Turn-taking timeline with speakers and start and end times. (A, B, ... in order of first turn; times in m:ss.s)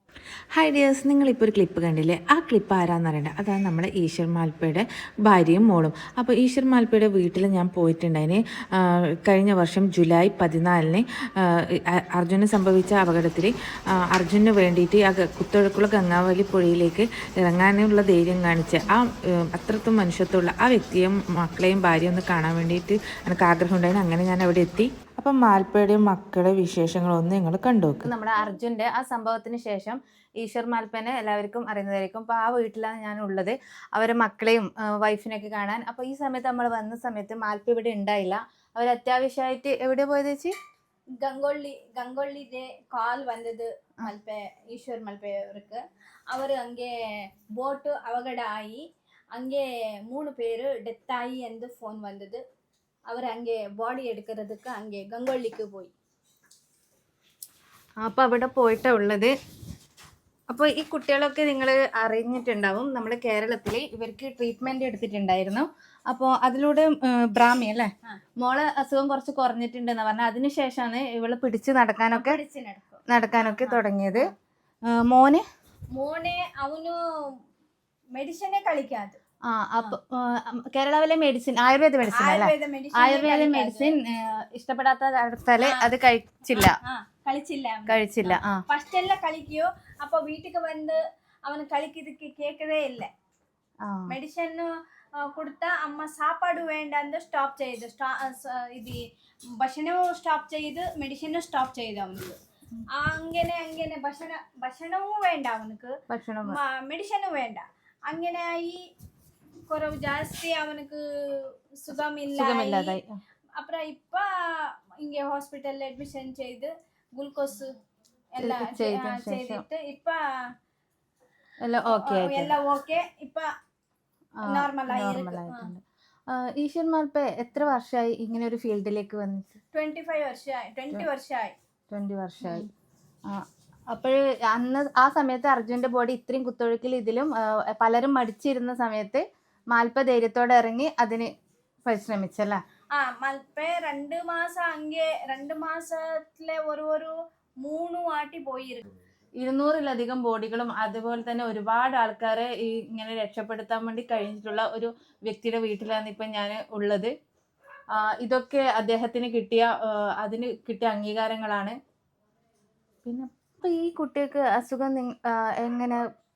0:00.6-0:11.0 A
0:12.2-0:13.5 A
0:14.1-0:19.0 A
0:19.5-0:28.1 A
0:28.0-0:40.5 B
0:41.2-0:48.8 C
0:49.3-0:52.4 C
0:53.1-0:55.9 C
0:58.0-0:59.3 B
1:00.5-1:12.4 B
1:12.1-1:14.3 C
1:13.1-1:14.2 B
1:14.9-1:15.4 B
1:15.9-1:17.0 C
1:18.1-1:19.2 C
1:19.5-1:26.8 B
1:22.2-1:24.0 C
1:25.6-1:25.9 C
1:26.5-1:33.1 C
1:27.9-1:28.6 B
1:33.8-1:34.1 B
1:34.1-1:34.7 C
1:35.2-1:39.0 C
1:39.6-1:42.4 C
1:42.9-1:48.8 C
1:46.1-1:46.6 B
1:49.7-1:53.0 C
1:52.3-1:53.2 B
1:53.6-1:57.8 C
1:58.3-2:00.2 C
1:58.4-1:59.6 B
2:01.6-2:02.5 B
2:01.9-2:03.5 C
2:04.4-2:09.6 B
2:04.4-2:05.7 C
2:09.7-2:11.6 C
2:11.9-2:12.7 B
2:12.4-2:12.7 C
2:13.3-2:21.3 B
2:21.8-2:22.6 B
2:22.9-2:28.8 C
2:29.4-2:37.1 B
2:37.9-2:41.8 B
2:43.0-2:46.0 B